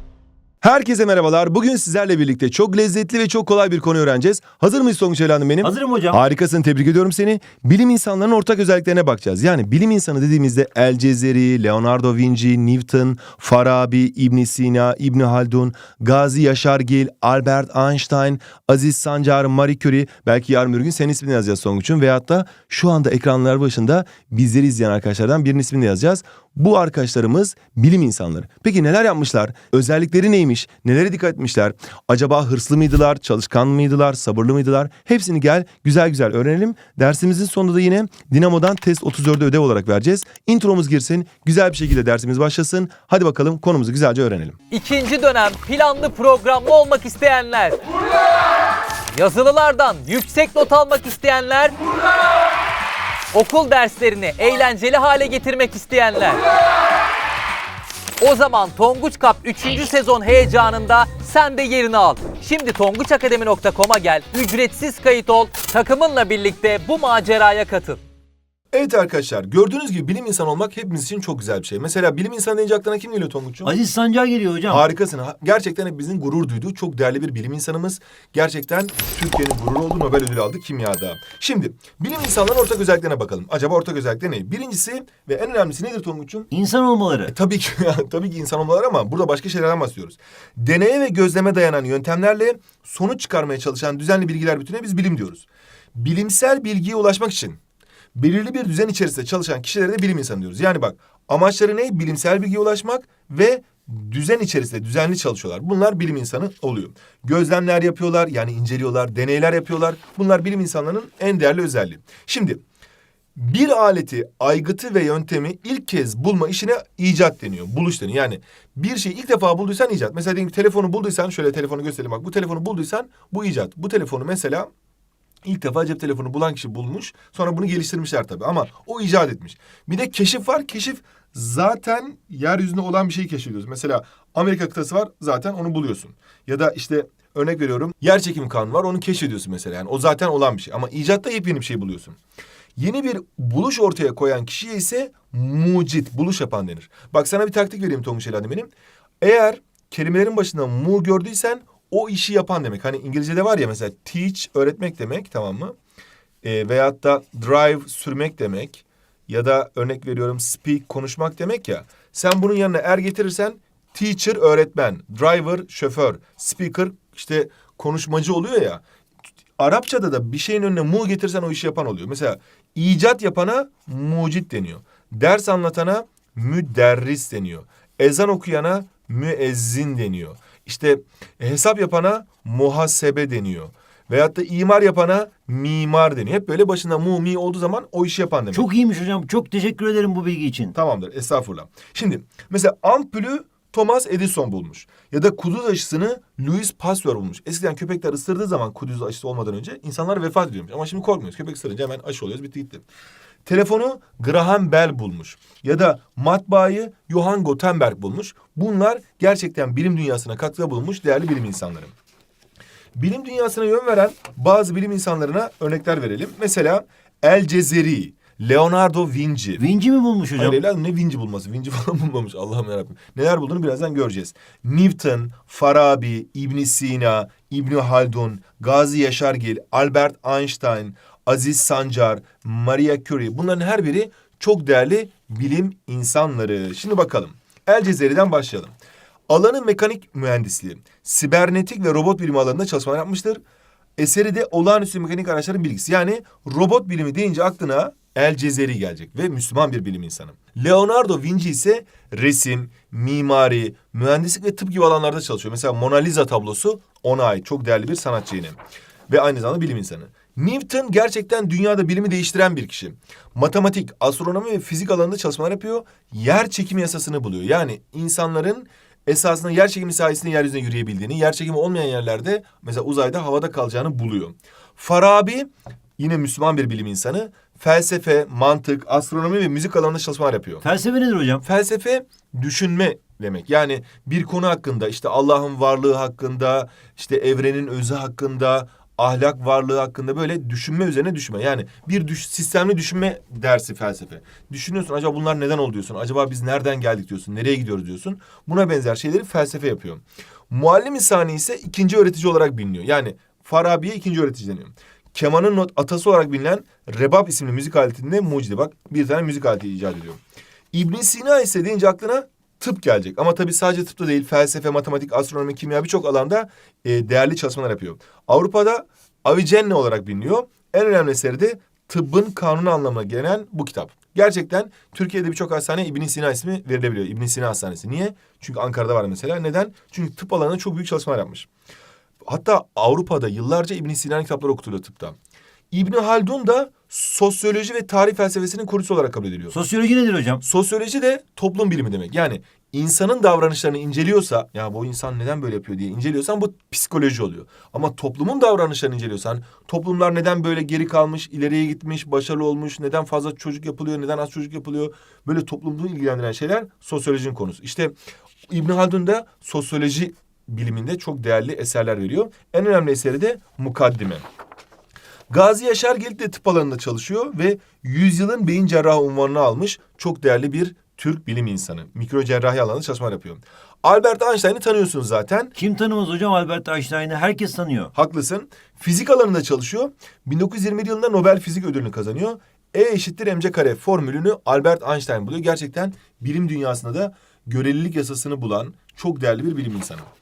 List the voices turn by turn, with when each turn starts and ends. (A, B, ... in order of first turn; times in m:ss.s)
0:00.6-0:44.6 A
0:05.6-0:06.2 B
0:44.7-0:47.8 C
0:49.2-0:51.8 C
0:53.3-0:56.4 C
0:58.2-1:08.0 C
1:08.7-1:13.7 A
1:13.6-1:14.8 B
1:14.7-1:26.5 A
1:26.5-1:27.3 B
1:27.3-1:37.6 A
1:38.1-1:52.6 A
1:53.3-2:04.7 A
2:05.4-2:22.2 A
2:22.8-2:35.7 A
2:36.4-2:48.8 A
2:49.6-3:08.7 A
3:08.5-3:10.7 B
3:10.7-3:22.8 A
3:23.4-3:31.9 A
3:33.0-3:39.6 A
3:39.6-3:40.6 B
3:40.4-3:58.7 A
3:59.3-4:03.4 A
4:04.0-4:18.6 A
4:19.1-4:40.6 A
4:40.6-4:41.4 B
4:41.4-5:10.2 A
5:10.7-5:31.5 A
5:32.2-5:35.2 A
5:35.7-5:39.5 A
5:39.5-5:40.4 B
5:40.4-5:57.9 A
5:58.5-6:04.2 A
6:05.3-6:15.5 A
6:15.5-6:17.9 B
6:17.9-6:30.1 A